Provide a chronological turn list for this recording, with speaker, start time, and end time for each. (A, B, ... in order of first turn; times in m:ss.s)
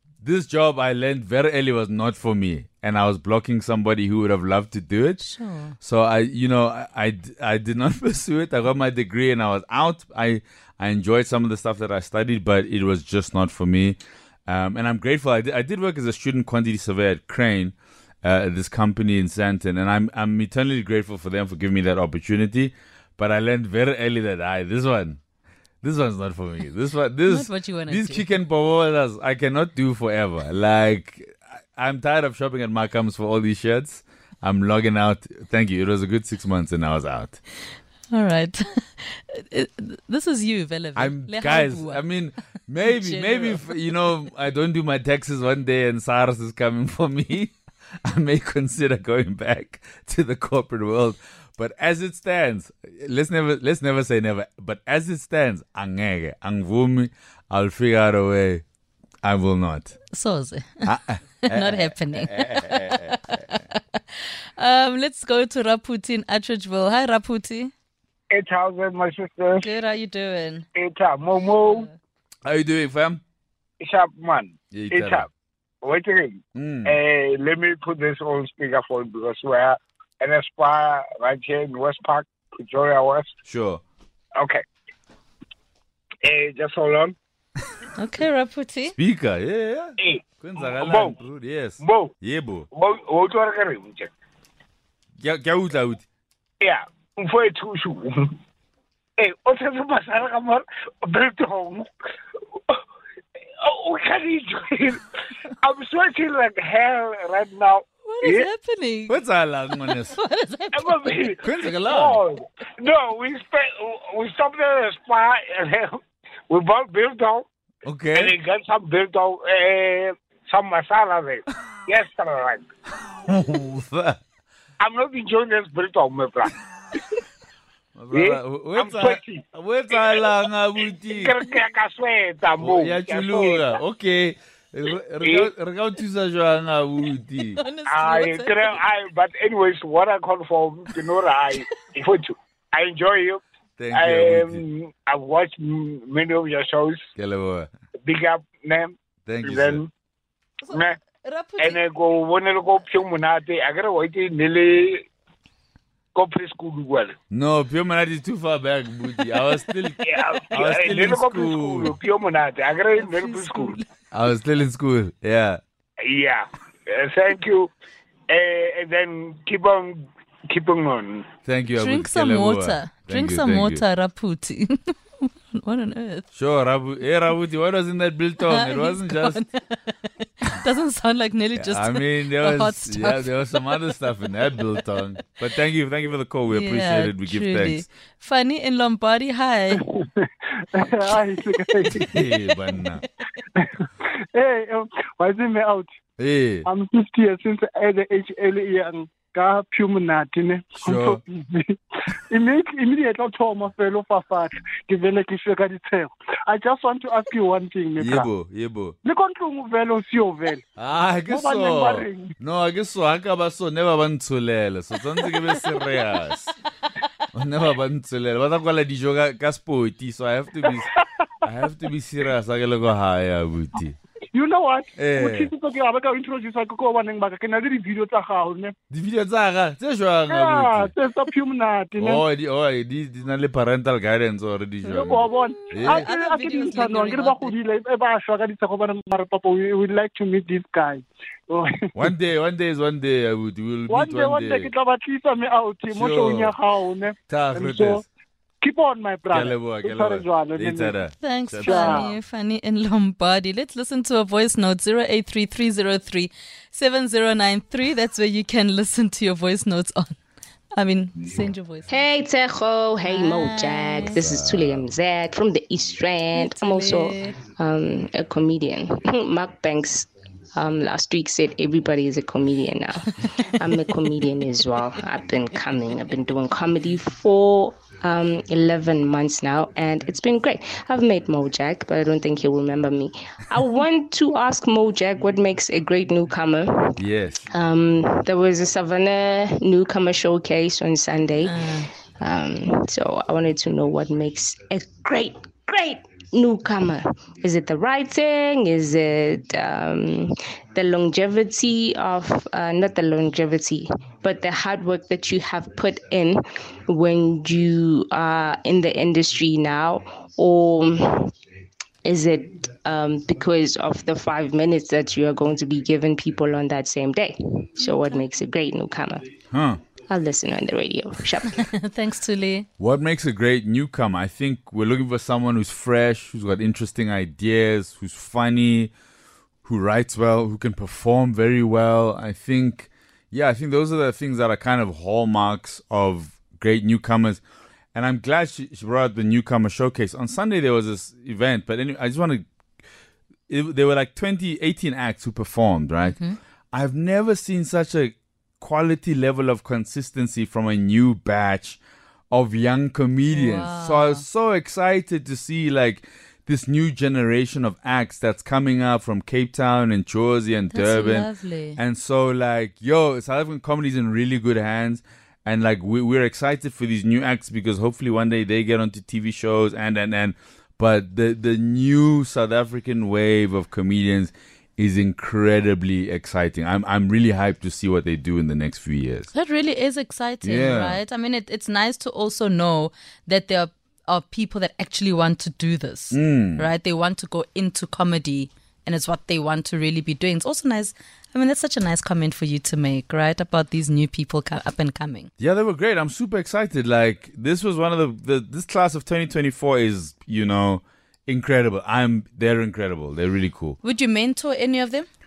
0:00.2-0:05.2 A
0:05.2-0:05.8 B
0:05.8-0:25.2 A
0:25.8-0:37.4 A
0:27.3-0:28.2 B
0:38.1-0:42.1 B
0:41.0-0:58.6 A
0:42.8-0:43.7 B
0:59.2-1:00.0 A
1:00.1-1:00.9 B
1:00.8-1:03.4 A
1:01.4-1:07.7 B
1:08.3-1:09.7 C
1:09.6-1:10.6 B
1:10.7-1:11.9 C
1:11.6-1:11.9 B
1:12.4-1:13.2 A
1:13.8-1:15.3 C
1:14.7-1:15.3 A
1:15.8-1:23.3 C
1:16.5-1:17.0 A
1:23.4-1:23.8 A
1:24.4-1:24.6 C
1:26.2-1:27.2 C
1:28.0-1:28.9 B
1:29.0-1:32.7 A
1:30.0-1:31.2 C
1:31.8-1:32.1 C
1:32.7-1:34.1 C
1:35.2-1:36.0 A
1:36.6-1:38.4 C
1:39.2-1:41.9 C
1:43.6-1:45.1 C
1:45.6-1:48.5 C
1:48.0-1:49.2 B
1:49.1-1:50.2 A
1:49.8-1:51.2 B
1:50.7-1:57.4 C
1:51.4-1:52.2 A
1:57.8-1:58.3 A
1:58.1-2:02.6 C
2:03.1-2:04.2 A
2:04.8-2:06.5 C
2:08.0-2:11.4 A
2:08.1-2:09.4 C
2:10.0-2:10.2 C
2:11.1-2:13.8 C
2:12.6-2:17.6 A
2:15.2-2:15.5 C
2:17.5-2:18.8 B
2:17.9-2:23.4 C
2:23.8-2:24.6 A
2:23.9-2:27.1 C
2:27.2-2:27.7 A
2:28.0-2:29.9 C
2:29.2-2:29.8 A
2:30.6-2:31.8 B
2:30.7-2:31.0 C
2:31.6-2:35.1 C
2:36.1-2:37.1 C
2:37.3-2:42.0 A
2:40.0-2:43.8 C
2:43.0-2:43.8 B
2:44.1-2:45.6 A
2:46.0-2:47.7 C
2:48.3-2:51.3 C
2:51.4-2:53.8 A
2:51.8-2:56.2 B
2:56.3-2:59.4 A
2:58.4-3:03.3 B
3:01.6-3:07.8 A
3:06.5-3:09.8 B
3:09.9-3:12.3 D
3:11.9-3:13.0 A
3:13.6-3:15.9 D
3:16.2-3:16.7 A
3:16.6-3:28.3 D
3:20.8-3:21.2 A
3:28.0-3:29.0 A
3:29.0-3:30.6 D
3:30.8-3:36.5 A
3:31.3-3:32.3 D
3:37.3-3:40.9 A
3:41.4-3:44.0 A
3:44.3-3:48.7 D
3:45.0-3:45.5 A
3:48.9-3:50.9 A
3:50.3-3:52.2 D
3:52.0-3:56.1 A
3:54.8-4:01.9 D
3:55.8-3:57.5 B
4:01.9-4:04.7 A
4:03.9-4:08.0 D
4:05.9-4:06.5 A
4:07.3-4:08.0 A
4:08.6-4:10.9 D
4:09.3-4:12.1 A
4:11.2-4:20.2 B
4:11.6-4:12.1 D
4:20.7-4:22.0 B
4:21.9-4:47.0 E
4:23.0-4:24.2 B
4:24.2-4:24.9 A
4:26.3-4:27.4 B
4:47.0-4:47.4 A
4:47.5-5:11.3 E
4:51.4-4:51.9 B
5:12.0-5:19.3 E
5:17.8-5:18.2 B
5:19.5-5:19.8 A
5:20.1-5:21.6 E
5:21.5-5:22.7 B
5:22.8-5:28.9 A
5:29.6-5:37.4 A
5:37.9-5:42.5 A
5:43.5-5:46.2 A
5:46.7-5:51.8 A
5:52.3-6:19.3 A
5:53.3-5:54.2 B
6:00.7-6:01.8 B
6:19.3-6:35.3 B
6:20.4-6:21.0 A
6:26.1-6:26.7 A
6:35.4-6:43.8 A
6:43.8-6:45.1 B